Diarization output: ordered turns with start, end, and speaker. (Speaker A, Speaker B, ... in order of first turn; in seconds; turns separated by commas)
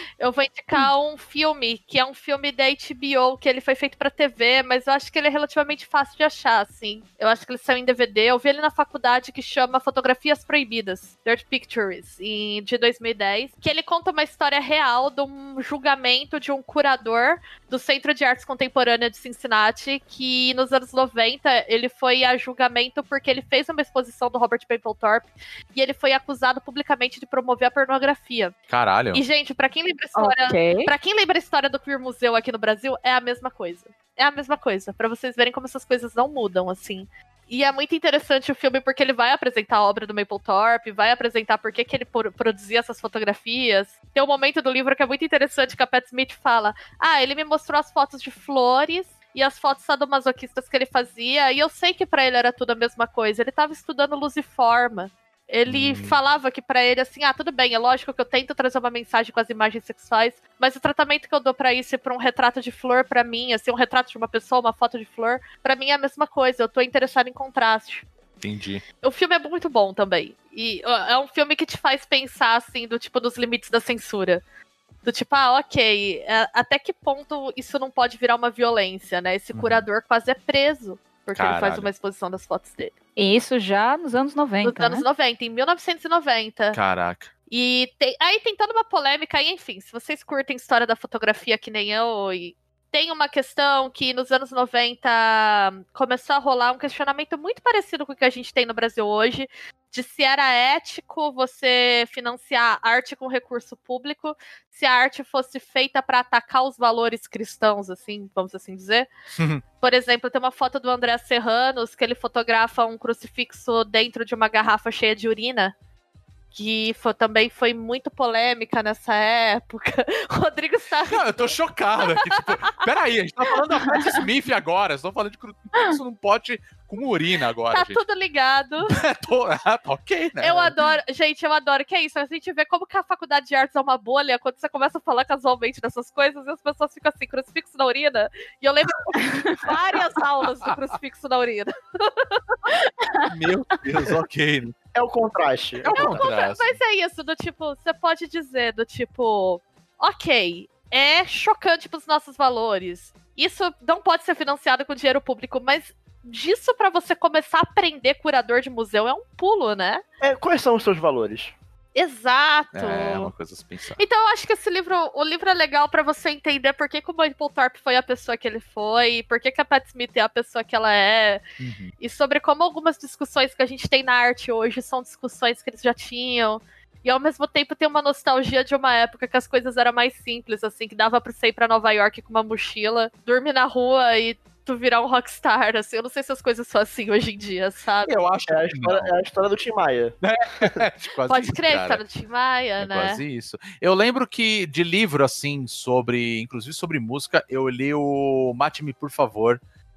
Speaker A: 0.2-28.6, Speaker B: 28.7-29.2, Speaker A: 29.1-68.1, Speaker C: 30.1-30.9, Speaker B: 55.7-56.2, Speaker B: 68.4-68.8, Speaker A: 69.0-74.4, Speaker A: 75.0-82.9, Speaker B: 79.5-79.9, Speaker B: 81.3-81.9, Speaker C: 83.2-85.0, Speaker A: 84.6-86.8, Speaker B: 86.7-87.3, Speaker A: 87.5-109.1, Speaker B: 109.4-109.6, Speaker A: 109.8-115.7, Speaker A: 116.5-122.7, Speaker B: 121.1-128.0, Speaker A: 127.7-129.0, Speaker B: 128.9-130.7, Speaker A: 130.4-142.7, Speaker B: 143.2-144.8, Speaker D: 144.9-146.2, Speaker B: 145.8-146.8, Speaker A: 145.9-160.0, Speaker D: 160.2-161.5, Speaker A: 161.9-163.3, Speaker B: 162.7-164.0, Speaker A: 164.0-171.4, Speaker B: 171.6-171.9, Speaker A: 172.0-188.2, Speaker B: 188.0-189.1, Speaker D: 188.5-190.8, Speaker B: 190.2-192.0, Speaker A: 191.3-193.2, Speaker B: 192.8-199.6